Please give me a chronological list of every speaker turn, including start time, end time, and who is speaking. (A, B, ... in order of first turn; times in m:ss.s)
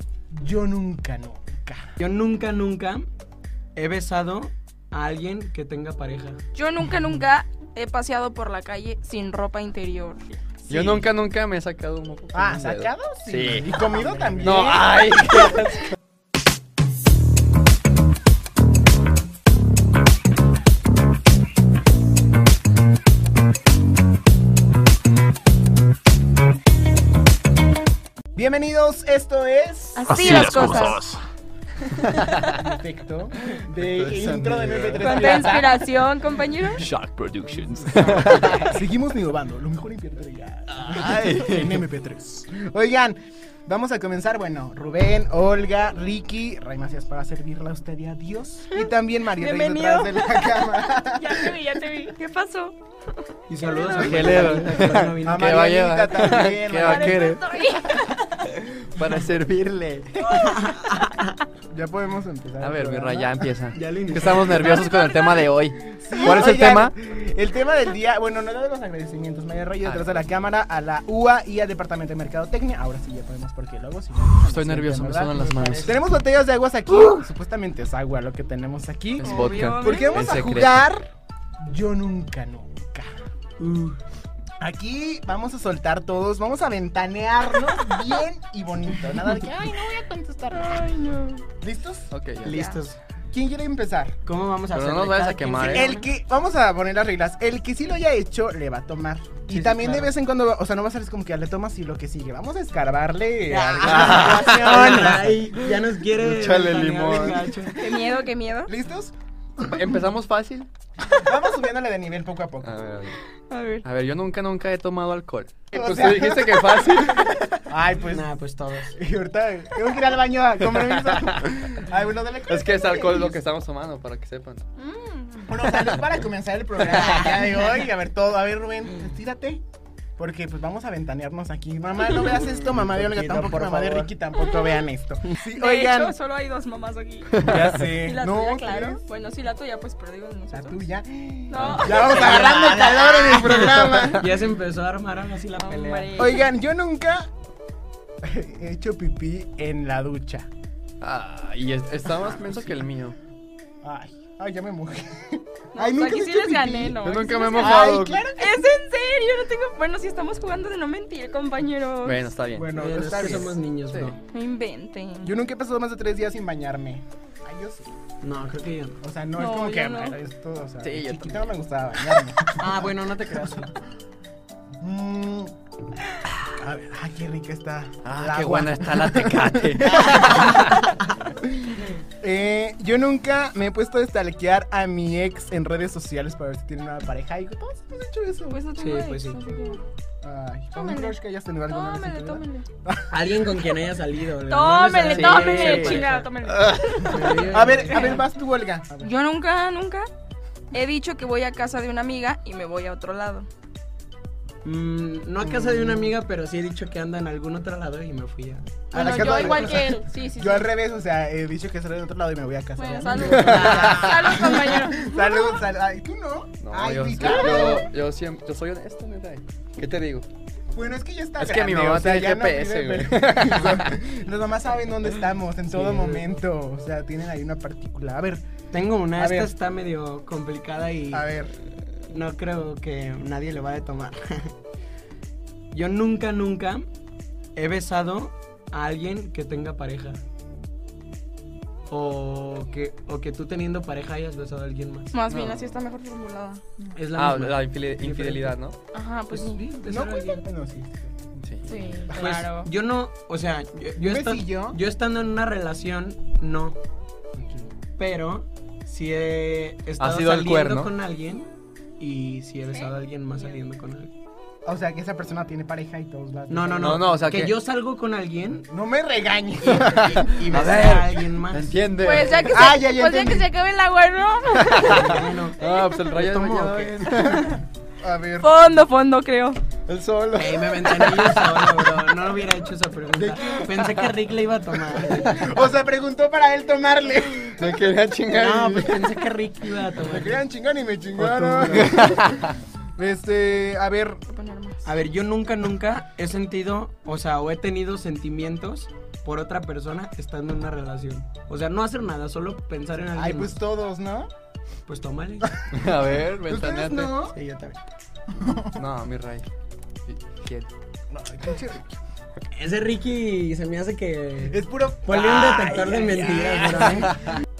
0:00.3-0:02.0 A
0:02.0-0:03.1 B
0:03.8-0:06.4 B
0:06.5-0:10.4 C
0:10.6-0:11.0 A
0:10.7-0:13.7 D
0:12.3-0:15.0 A
0:13.7-0:14.7 B
0:14.4-0:15.9 D
0:28.3-0:30.6 A
0:30.0-0:31.1 C
0:30.2-0:30.8 D
0:31.9-0:32.4 C
0:32.0-0:32.5 D
0:32.4-0:35.8 A
0:33.7-0:35.6 D
0:35.0-0:36.8 C
0:36.8-0:38.8 D
0:37.6-0:51.6 A
0:40.7-0:41.8 D
0:48.7-0:52.8 C
0:53.5-0:55.7 B
0:53.6-0:54.7 C
0:53.9-0:57.4 D
0:55.2-0:57.4 A
0:56.7-0:58.2 C
0:58.8-1:00.5 D
1:00.2-1:01.3 B
1:00.3-1:00.6 C
1:01.7-1:03.4 A
1:02.6-1:06.9 D
1:03.7-1:04.9 B
1:04.6-1:05.5 C
1:05.9-1:21.1 A
1:09.8-1:10.2 D
1:14.4-1:16.0 D
1:15.3-1:16.0 B
1:16.9-1:17.2 B
1:19.2-1:20.9 D
1:19.2-1:20.4 C
1:21.6-1:23.1 A
1:23.6-1:24.0 B
1:24.6-1:30.9 A
1:30.5-1:31.4 C
1:31.6-1:32.1 A
1:32.1-1:32.6 D
1:32.4-1:33.0 B
1:32.5-1:32.8 C
1:33.3-1:34.2 A
1:34.2-1:36.0 B
1:34.7-1:35.9 D
1:35.6-1:45.5 A
1:39.5-1:40.1 B
1:43.5-1:47.9 B
1:43.8-1:47.5 D
1:47.8-1:48.7 C
1:48.7-1:49.8 A
1:49.7-1:50.7 D
1:51.1-1:52.7 A
1:52.6-1:53.2 D
1:53.5-1:53.8 C
1:53.8-1:57.7 D
1:55.7-1:57.1 A
1:57.6-1:58.3 A
1:58.0-1:59.0 B
1:59.0-2:03.4 A
2:00.6-2:01.7 D
2:02.5-2:04.6 D
2:04.8-2:05.7 C
2:05.4-2:09.6 A
2:06.9-2:07.3 D
2:10.2-2:16.1 A
2:12.3-2:14.1 B
2:14.4-2:14.8 C
2:15.5-2:20.8 C
2:17.4-2:17.8 D
2:17.4-2:19.0 A
2:20.5-2:24.3 A
2:21.5-2:23.6 C
2:21.5-2:21.9 D
2:22.0-2:26.2 B
2:23.5-2:24.2 D
2:25.5-2:26.4 C
2:26.2-2:27.3 A
2:28.2-2:30.5 A
2:31.0-2:33.2 D
2:32.3-2:32.8 A
2:33.8-2:37.0 A
2:35.7-2:42.2 C
2:37.0-2:38.3 D
2:37.5-2:38.5 A
2:42.0-2:42.7 D
2:42.6-2:43.6 A
2:42.7-2:44.2 B
2:43.9-2:44.2 D
2:44.3-2:45.3 C
2:45.2-2:47.9 A
2:48.2-2:49.0 B
2:49.0-2:52.8 A
2:49.4-2:50.2 C
2:50.8-2:51.5 D
2:52.6-2:53.7 B
2:54.8-2:55.5 A
2:56.4-3:00.8 A
2:58.0-3:00.9 D
3:02.2-3:08.6 A
3:08.5-3:09.8 C
3:08.8-3:09.4 B
3:10.2-3:13.1 A
3:10.7-3:11.2 C
3:11.7-3:12.6 C
3:13.1-3:16.3 B
3:14.5-3:18.2 C
3:15.1-3:17.2 D
3:17.0-3:18.2 B
3:17.5-3:19.1 A
3:19.0-3:20.1 C
3:20.7-3:23.5 C
3:24.6-3:29.9 B
3:25.4-3:26.0 A
3:28.9-3:37.9 A
3:28.9-3:30.7 C
3:32.8-3:35.6 C
3:33.3-3:34.2 D
3:33.4-3:34.6 B
3:36.6-3:40.2 D
3:37.2-3:37.8 C
3:40.7-3:48.4 A
3:41.4-3:44.0 D
3:45.7-3:46.2 B
3:48.7-3:51.3 B
3:49.1-3:49.5 A
3:51.1-3:51.6 A
3:52.1-3:54.5 B
3:55.7-3:56.9 B
3:57.5-4:00.2 B
4:01.9-4:05.1 B
4:05.1-4:07.0 C
4:05.3-4:05.6 D
4:06.9-4:08.5 B
4:07.1-4:08.8 D
4:08.9-4:09.6 C
4:09.3-4:10.4 B
4:09.8-4:11.3 A
4:11.4-4:11.8 D
4:11.6-4:12.7 C
4:12.1-4:16.8 B
4:14.0-4:14.8 A
4:17.4-4:17.6 A
4:18.0-4:24.1 B
4:20.0-4:20.9 D
4:22.7-4:23.6 C
4:24.6-4:27.3 A
4:26.5-4:28.7 B
4:26.8-4:27.5 D
4:28.7-4:30.4 A
4:29.6-4:31.8 B
4:29.8-4:32.5 D
4:32.0-4:36.0 C
4:32.5-4:33.4 A
4:34.5-4:37.6 D
4:34.8-4:35.6 B
4:36.1-4:36.9 B
4:37.4-4:38.6 A
4:38.4-4:39.6 C
4:39.9-4:41.9 D
4:40.3-4:45.5 B
4:43.2-4:44.0 A
4:45.0-4:47.8 A
4:47.6-4:49.2 D
4:48.3-4:50.4 B
4:50.0-4:54.2 A
4:51.2-4:52.1 B
4:51.7-4:52.6 D
4:54.3-4:54.8 C
4:54.8-5:03.6 B
5:03.1-5:04.3 A
5:04.8-5:05.6 B
5:05.7-5:07.1 D
5:06.4-5:07.4 A
5:07.3-5:07.8 B
5:08.3-5:08.8 A
5:08.8-5:09.4 D
5:10.1-5:10.7 D
5:11.1-5:11.9 A
5:12.5-5:17.3 B
5:14.5-5:17.1 A
5:15.1-5:17.3 D